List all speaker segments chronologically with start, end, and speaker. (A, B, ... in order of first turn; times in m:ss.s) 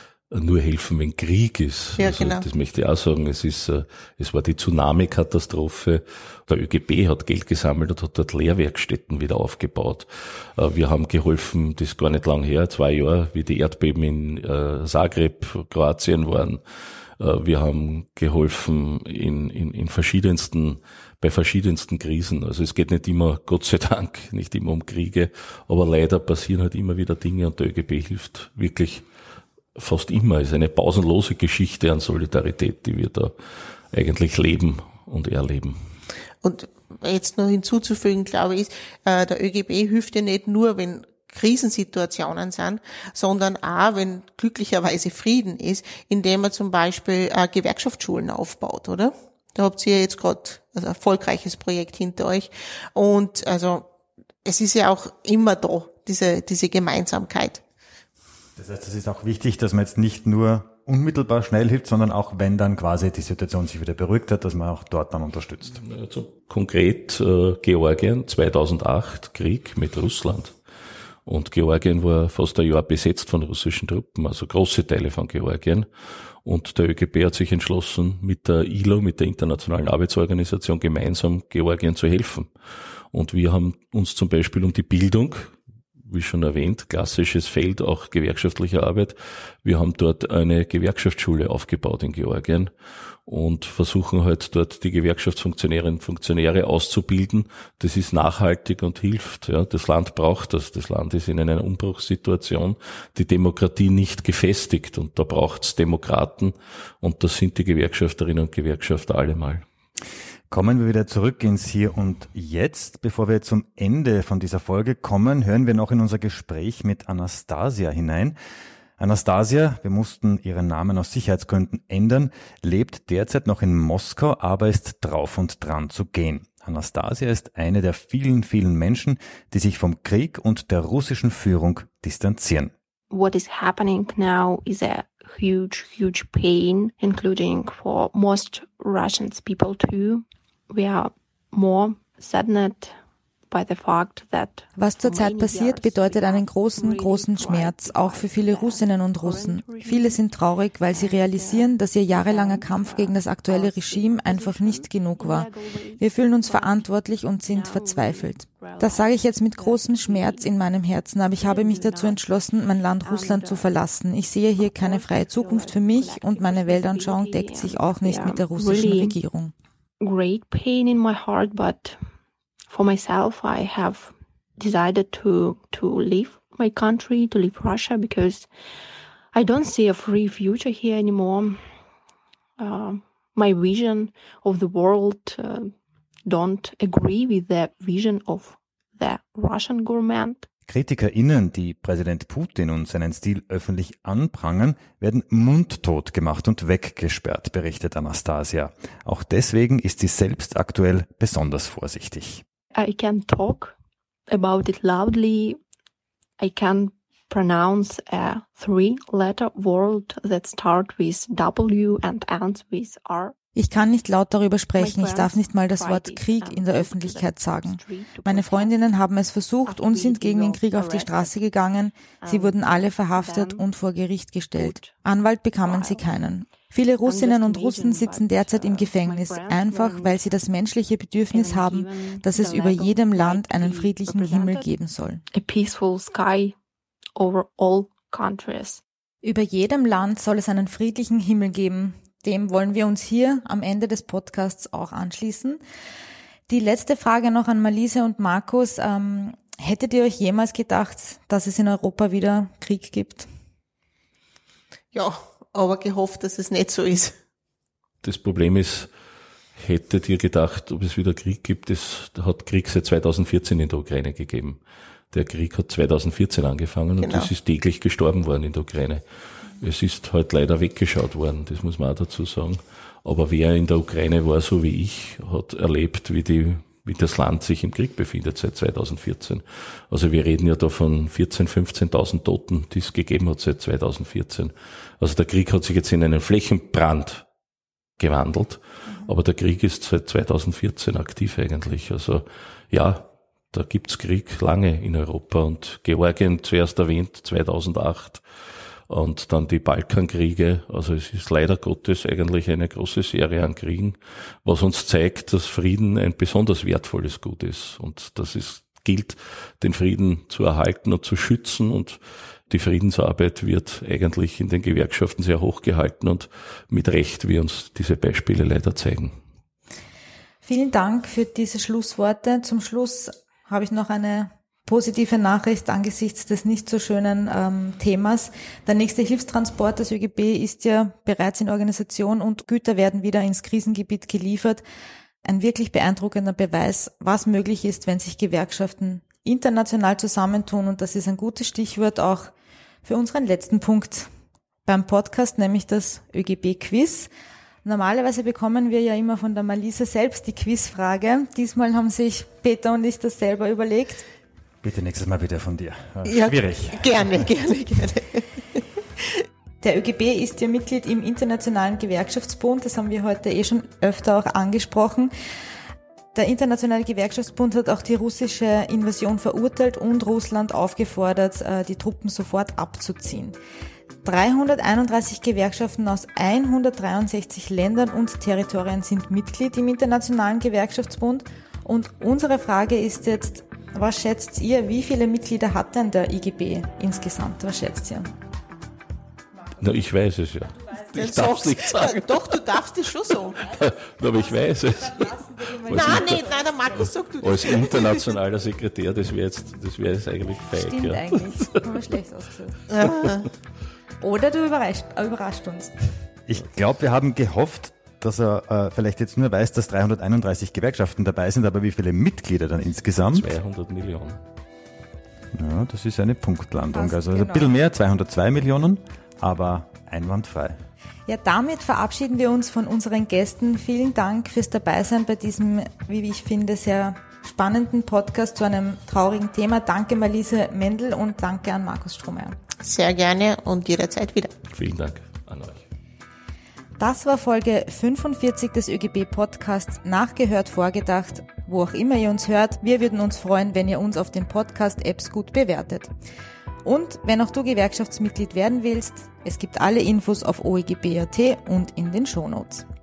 0:00.3-0:16.6 A
0:02.0-0:02.4 B
0:17.2-0:29.0 A
0:29.8-0:33.3 A
0:33.9-0:35.8 A
0:36.4-0:53.9 B
0:54.4-0:57.6 B
0:58.6-1:05.8 C
1:05.7-1:10.6 A
1:11.2-1:15.9 A
1:16.4-1:22.5 A
1:23.1-1:32.7 A
1:33.2-1:49.6 A
1:50.5-1:58.4 C
1:59.0-2:12.7 C
2:13.1-2:23.0 D
2:23.5-2:30.2 D
2:24.7-2:49.5 E
2:30.9-2:36.9 D
2:37.4-2:40.5 D
2:41.3-2:42.2 D
2:43.0-2:43.7 D
2:44.6-2:49.2 D
2:50.0-2:52.0 D
2:52.7-2:58.5 D
2:59.3-3:01.7 D
3:02.6-3:05.7 D
3:06.2-3:10.5 D
3:10.7-3:22.4 C
3:22.7-3:23.8 D
3:24.3-3:25.6 D
3:26.4-3:33.3 D
3:33.6-3:55.2 E
3:34.8-3:38.7 D
3:39.6-3:41.4 D
3:42.1-3:43.6 D
3:44.5-3:45.0 D
3:45.6-3:46.0 D
3:47.0-3:50.2 D
3:51.3-3:54.7 D
3:55.3-3:56.6 D
3:57.2-3:58.8 D
3:59.2-4:05.6 E
4:06.5-4:13.3 E
4:14.9-4:17.1 B
4:18.0-4:18.9 A
4:19.6-4:24.6 A
4:25.1-4:47.2 A
4:27.0-4:27.3 B
4:48.0-4:58.2 A
4:58.9-5:19.1 A
5:20.4-5:34.6 E
5:35.2-5:42.3 E
5:42.8-5:44.1 E
5:44.6-5:47.1 E
5:47.6-5:54.1 E
5:54.6-5:57.2 C
5:56.0-5:59.2 B
5:59.6-6:05.1 E
6:06.1-6:13.4 E
6:14.0-6:28.1 E
6:29.6-6:32.3 A
6:30.9-6:33.4 B
6:33.4-6:41.7 A
6:34.1-6:36.5 E
6:35.6-6:38.0 B
6:40.4-6:42.7 E
6:42.7-6:43.2 B
6:42.8-6:43.1 A
6:44.0-6:45.7 E
6:46.3-6:53.3 C
6:53.0-6:54.2 A
6:55.3-7:00.6 C
6:56.7-6:57.6 E
7:01.1-7:12.4 E
7:12.6-7:14.3 B
7:14.5-7:15.6 A
7:16.8-7:25.9 E
7:26.6-7:32.6 E